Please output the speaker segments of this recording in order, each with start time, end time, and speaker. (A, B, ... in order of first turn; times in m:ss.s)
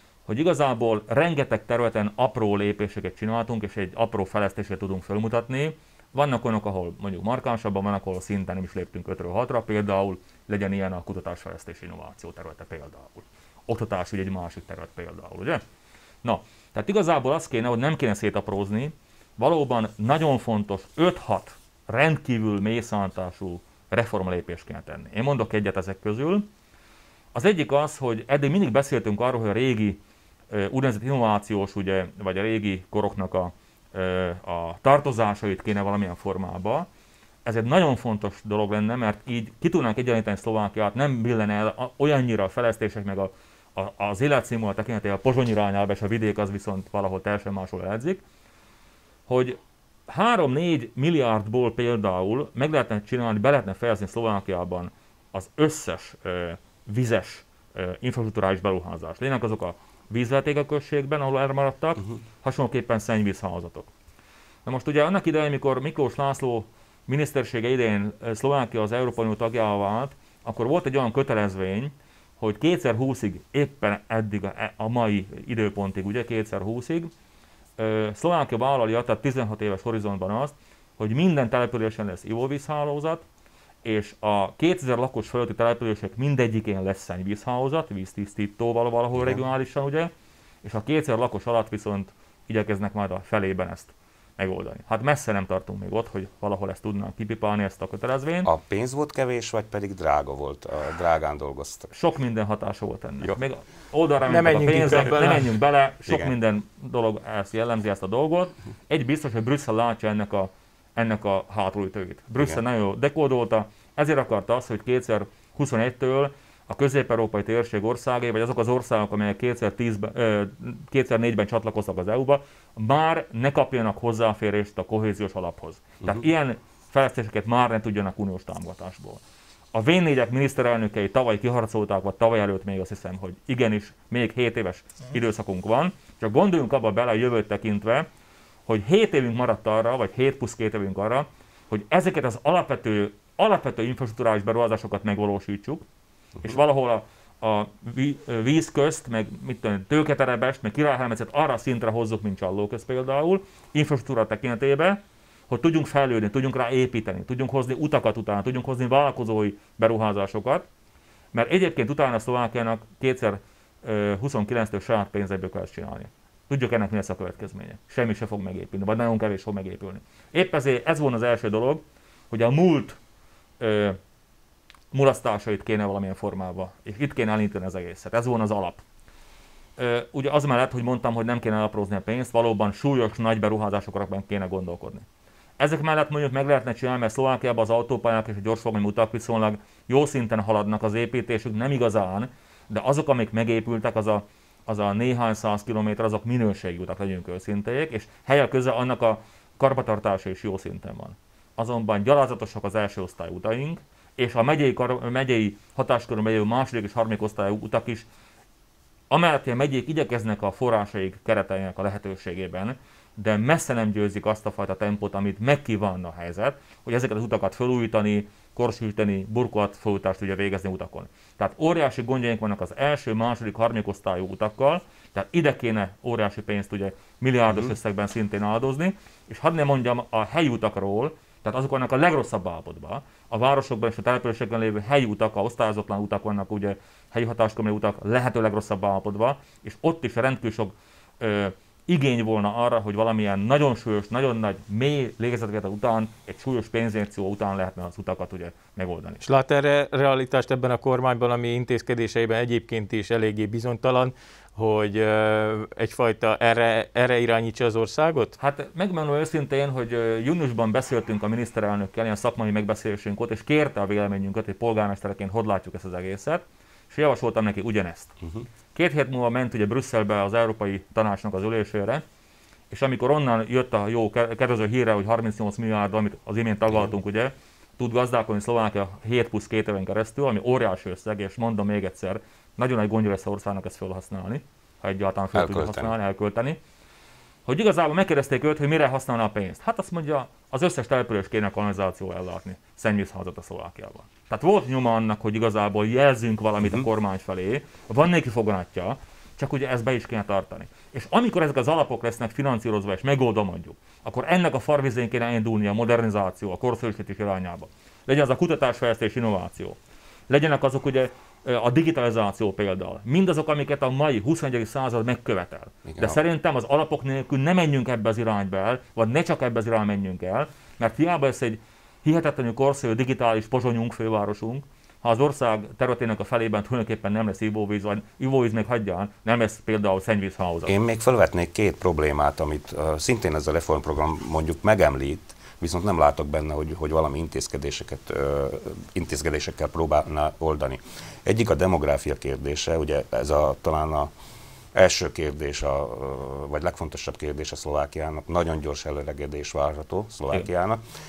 0:00.3-0:15.6 A
0:16.2-0:26.5 A
0:27.3-0:30.0 A
0:30.5-0:36.9 A
0:37.4-0:48.2 A
0:49.3-1:03.9 A
1:04.6-1:17.1 A
1:17.8-1:23.2 A
1:23.8-1:30.1 A
1:29.1-1:29.4 B
1:30.6-1:38.5 A
1:38.4-1:41.9 B
1:41.9-2:09.2 A
1:44.3-1:45.5 C
1:46.1-1:46.3 B
2:09.7-2:18.1 A
2:18.7-2:25.8 A
2:26.4-2:40.6 A
2:41.3-2:53.0 A
2:53.6-2:54.0 A
2:54.9-2:58.8 A
2:59.8-3:05.0 A
3:05.6-3:28.0 A
3:29.1-4:09.2 A
4:09.2-4:18.3 C
4:18.4-4:28.2 A
4:28.7-4:32.0 A
4:32.7-4:46.6 A
4:45.3-4:45.9 B
4:47.4-5:09.8 A
5:10.3-5:30.8 A
5:15.8-5:16.2 B
5:30.7-5:44.1 B
5:44.7-5:50.8 B